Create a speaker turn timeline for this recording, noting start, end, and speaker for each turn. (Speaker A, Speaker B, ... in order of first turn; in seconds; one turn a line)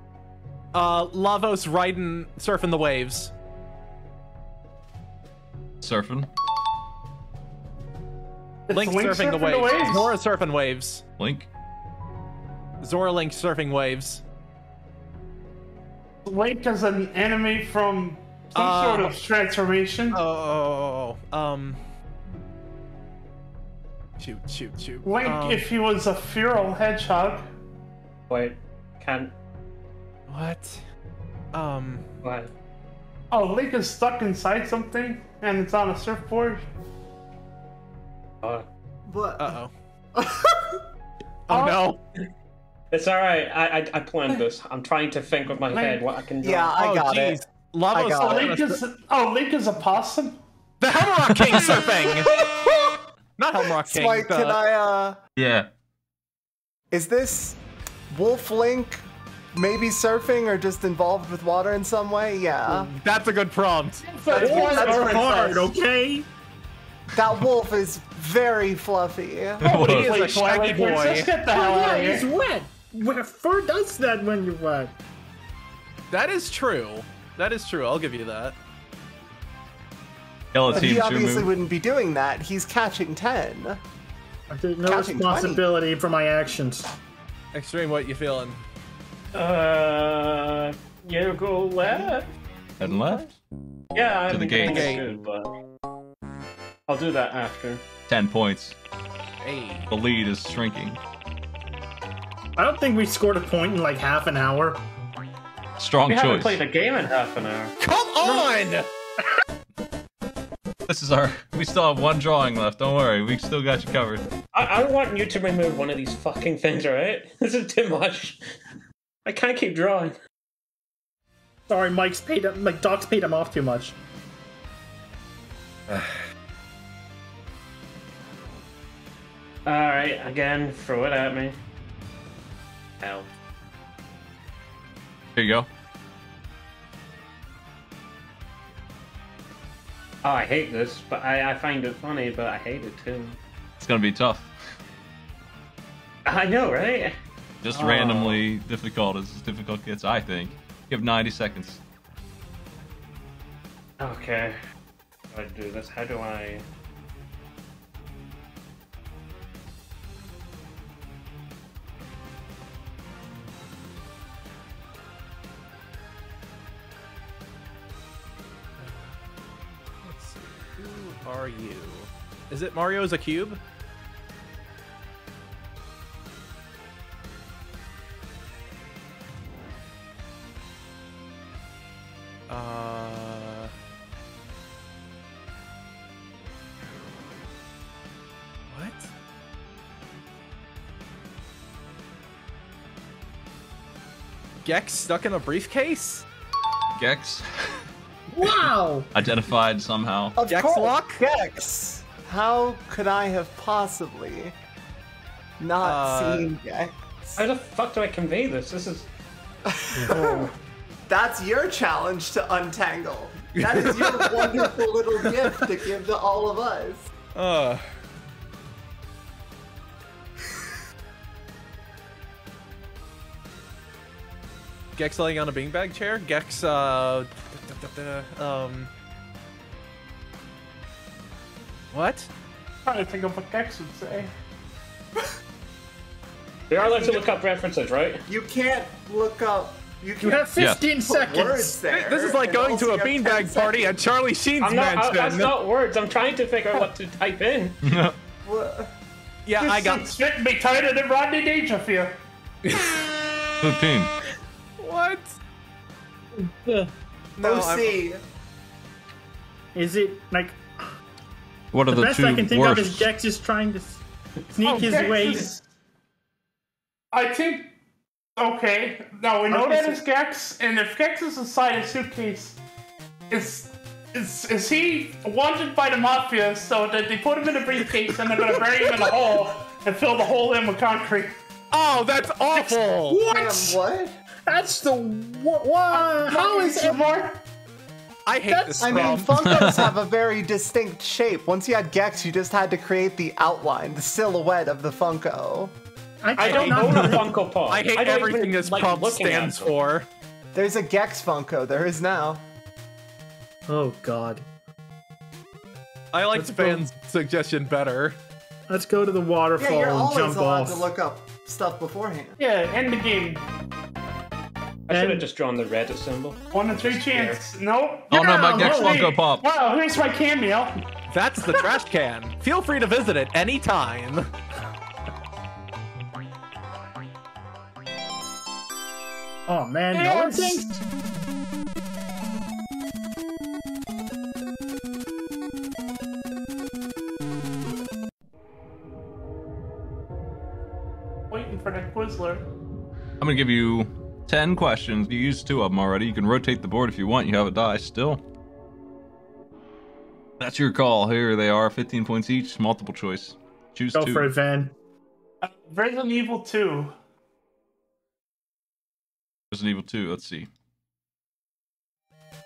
Speaker A: 0.7-3.3
Speaker B: 5.8-6.3
Speaker C: 8.7-10.1
Speaker A: 8.7-11.0
Speaker B: 11.2-11.5
Speaker A: 12.8-14.2
Speaker C: 16.2-20.2
Speaker A: 18.5-19.2
Speaker A: 20.1-21.8
Speaker A: 24.2-25.6
Speaker C: 25.0-27.5
Speaker D: 28.3-29.3
Speaker A: 30.3-30.8
Speaker A: 31.5-32.0
Speaker D: 32.2-32.5
Speaker C: 33.3-36.6
Speaker D: 38.4-38.7
Speaker E: 39.1-39.6
Speaker A: 39.4-39.7
Speaker E: 40.1-40.8
Speaker A: 41.5-42.0
Speaker D: 42.9-46.7
Speaker E: 46.4-47.4
Speaker A: 46.8-48.7
Speaker E: 47.9-48.6
Speaker C: 48.1-50.4
Speaker A: 50.8-52.5
Speaker A: 53.4-54.6
Speaker E: 53.8-55.2
Speaker B: 55.4-55.7
Speaker E: 56.9-62.9
Speaker A: 63.0-64.0
Speaker C: 64.0-65.7
Speaker F: 64.3-66.3
Speaker E: 64.3-65.6
Speaker E: 67.1-69.9
Speaker B: 69.6-70.2
Speaker C: 69.6-72.3
Speaker A: 69.7-71.3
Speaker F: 71.5-74.9
Speaker A: 76.1-78.5
Speaker B: 80.5-81.5
Speaker A: 80.7-81.0
Speaker E: 80.7-83.8
Speaker F: 84.5-86.9
Speaker E: 84.8-85.6
Speaker A: 87.5-88.6
Speaker D: 89.3-92.2
Speaker B: 92.8-93.3
Speaker E: 92.8-93.2
Speaker D: 93.9-95.5
Speaker B: 94.3-95.0
Speaker A: 94.6-95.1
Speaker D: 96.9-97.8
Speaker B: 98.1-98.8
Speaker A: 99.4-99.9
Speaker B: 99.9-101.0
Speaker F: 102.6-104.8
Speaker B: 105.8-106.6
Speaker D: 106.1-108.8
Speaker A: 107.8-108.8
Speaker B: 110.9-114.3
Speaker D: 114.5-118.4
Speaker D: 119.2-120.2
Speaker F: 121.7-124.0
Speaker A: 125.9-126.2
Speaker D: 129.7-131.6
Speaker D: 133.0-133.3
Speaker B: 135.3-135.7
Speaker D: 140.2-143.4
Speaker B: 143.8-144.5
Speaker D: 146.2-147.1
Speaker B: 147.6-151.8
Speaker D: 147.7-148.4
Speaker D: 154.0-154.6
Speaker D: 155.3-156.6
Speaker A: 168.8-169.1
Speaker A: 170.0-173.6
Speaker A: 182.5-183.7
Speaker A: 188.7-189.1
Speaker A: 194.6-196.2
Speaker B: 197.0-197.8
Speaker F: 198.3-199.1
Speaker B: 199.1-200.3
Speaker E: 200.3-204.5
Speaker A: 200.5-201.2
Speaker E: 205.6-207.4
Speaker A: 205.8-206.5
Speaker D: 207.3-209.1
Speaker E: 209.7-210.5
Speaker E: 211.1-217.1
Speaker A: 213.6-214.8
Speaker A: 217.3-217.8
Speaker A: 224.9-228.9
Speaker A: 231.9-232.3
Speaker C: 232.8-234.3
Speaker D: 236.7-238.2
Speaker E: 236.8-237.2
Speaker E: 238.3-240.5
Speaker F: 240.2-241.8
Speaker B: 240.6-240.8
Speaker E: 241.0-243.9
Speaker A: 241.9-245.5
Speaker D: 244.6-247.8
Speaker B: 247.8-248.2
Speaker E: 248.4-248.9
Speaker A: 249.4-250.1
Speaker C: 249.6-252.2
Speaker A: 252.6-253.0
Speaker B: 253.6-254.1
Speaker A: 254.8-255.3
Speaker A: 257.4-258.0
Speaker E: 257.4-258.2
Speaker F: 259.7-260.9
Speaker B: 261.7-263.1
Speaker F: 261.9-264.0
Speaker F: 264.5-265.5
Speaker A: 264.6-265.5
Speaker C: 267.1-267.7
Speaker C: 268.4-272.6
Speaker E: 269.5-270.0
Speaker C: 273.3-281.3
Speaker A: 281.7-283.2
Speaker F: 282.5-283.8
Speaker E: 283.2-284.1
Speaker F: 284.5-287.0
Speaker C: 285.9-287.4
Speaker A: 288.2-289.8
Speaker F: 288.4-289.8
Speaker E: 288.8-295.7
Speaker B: 289.4-289.9
Speaker F: 296.2-297.3
Speaker D: 296.4-299.6
Speaker A: 296.5-296.8
Speaker A: 297.7-300.1
Speaker E: 300.5-302.4
Speaker F: 303.7-304.4
Speaker A: 306.1-308.2
Speaker F: 306.3-306.8
Speaker F: 308.7-310.9
Speaker E: 309.6-312.4
Speaker C: 312.4-313.4
Speaker D: 314.9-317.4
Speaker F: 314.9-315.2
Speaker C: 316.5-320.7
Speaker B: 318.1-319.4
Speaker F: 318.1-319.1
Speaker A: 321.1-324.3
Speaker F: 329.5-330.8
Speaker C: 329.9-330.8
Speaker C: 341.3-342.4
Speaker B: 343.2-348.2
Speaker B: 350.4-354.3
Speaker F: 353.9-354.7
Speaker C: 355.4-356.9
Speaker B: 359.5-360.5